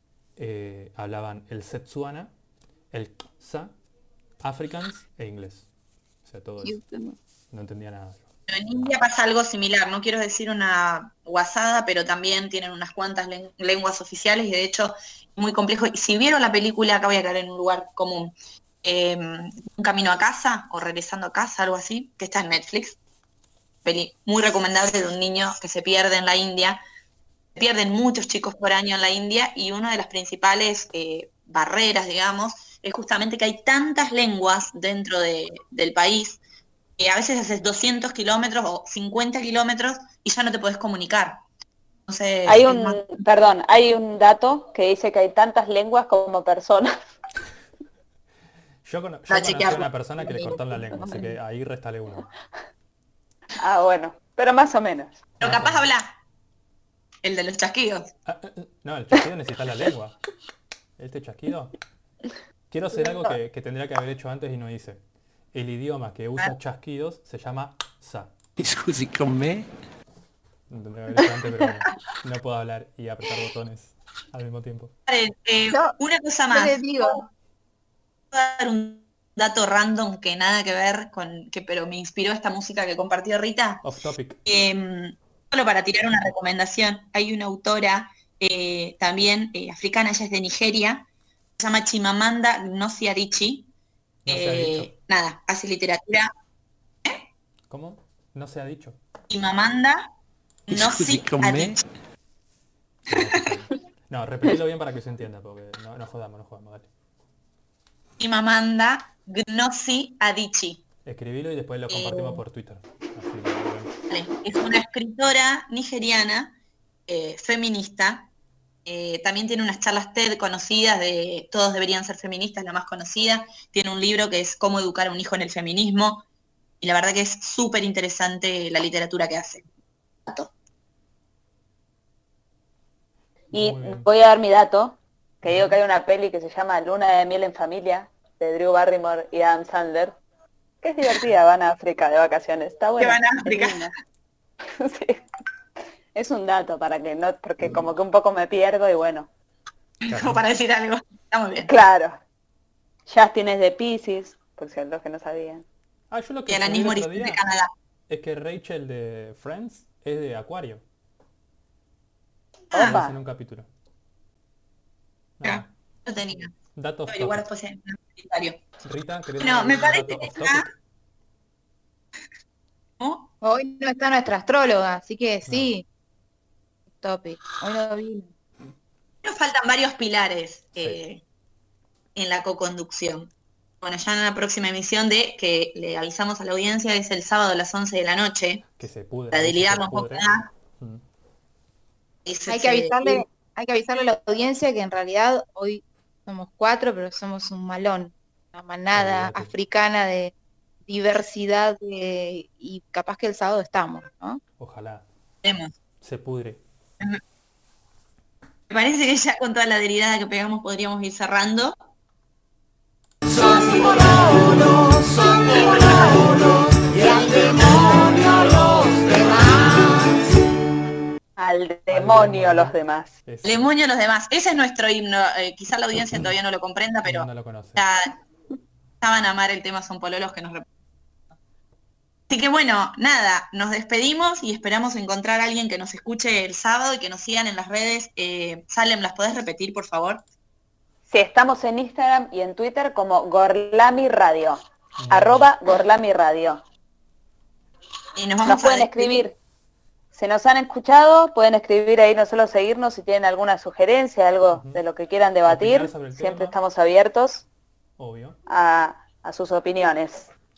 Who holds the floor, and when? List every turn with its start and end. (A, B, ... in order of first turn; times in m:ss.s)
0:00.4-0:02.3 A
0:02.9-0:03.7 A
0:04.4-0:05.7 A
0:06.2-0:06.8 A
0:06.6-0:07.2 B
0:07.5-0:08.3 A
0:08.5-0:23.0 C
0:23.8-0:26.8 C
0:27.6-0:36.4 C
0:37.0-0:41.4 C
0:42.1-0:43.1 C
0:42.4-0:47.0 D
0:48.8-0:52.3 A
0:49.3-0:49.9 C
0:50.2-0:51.2 D
0:51.0-0:51.2 B
0:53.6-0:55.2 D
0:55.4-0:55.9 A
0:55.4-0:56.1 C
0:57.2-0:58.1 C
0:58.2-1:00.2 A
1:01.0-1:01.8 A
1:02.7-1:05.0 A
1:05.5-1:08.3 A
1:08.6-1:09.7 E
1:10.7-1:14.9 A
1:15.1-1:17.2 C
1:16.5-1:17.2 B
1:18.3-1:23.8 C
1:23.8-1:24.4 A
1:24.4-1:31.1 C
1:31.6-1:33.7 C
1:34.2-1:34.9 A
1:34.3-1:36.3 C
1:37.7-1:39.0 A
1:39.3-1:40.1 C
1:40.7-1:41.8 C
1:40.7-1:41.8 E
1:43.1-1:46.9 A
1:43.1-1:43.5 C
1:48.2-1:50.8 C
1:51.0-1:53.9 A
1:51.9-1:52.4 C
1:54.1-1:56.6 C
1:57.1-1:58.3 C
1:58.8-2:06.2 C
2:06.8-2:09.6 C
2:13.5-2:14.0 A
2:13.5-2:20.2 D
2:15.4-2:15.8 A
2:20.8-2:23.9 D
2:23.0-2:23.9 C
2:24.7-2:25.2 D
2:26.1-2:29.3 D
2:30.0-2:31.7 C
2:30.1-2:30.4 A
2:31.7-2:32.2 D
2:33.1-2:35.6 D
2:36.1-2:37.4 A
2:36.5-2:37.7 C
2:38.1-2:40.8 A
2:42.7-2:43.0 C
2:42.7-2:43.2 D
2:42.8-2:43.7 A
2:45.4-2:45.7 A
2:45.4-2:46.5 C
2:46.7-2:47.4 A
2:47.1-2:48.6 C
2:48.8-2:50.7 A
2:49.4-2:50.7 C
2:53.0-2:53.3 C
2:53.4-2:55.8 B
2:55.5-2:55.7 A
2:57.0-2:58.3 B
2:59.2-3:01.2 C
3:02.2-3:08.6 C
3:08.8-3:11.0 A
3:09.3-3:10.5 C
3:12.2-3:13.2 C
3:12.5-3:20.3 B
3:18.9-3:19.5 A
3:20.9-3:24.4 B
3:24.6-3:25.0 A
3:25.4-3:25.8 C
3:26.0-3:26.6 A
3:28.7-3:31.7 C
3:35.4-3:36.2 B
3:37.0-3:40.2 B
3:41.4-3:43.1 D
3:41.9-3:43.7 A
3:43.4-3:48.1 C
3:47.0-3:47.8 A
3:49.0-3:50.6 C
3:52.3-4:00.2 C
4:01.1-4:06.6 D
4:05.0-4:05.5 A
4:08.2-4:09.2 C
4:08.4-4:09.4 D
4:10.1-4:17.4 D
4:14.5-4:14.8 A
4:15.4-4:16.6 A
4:18.0-4:18.4 A
4:18.5-4:20.3 D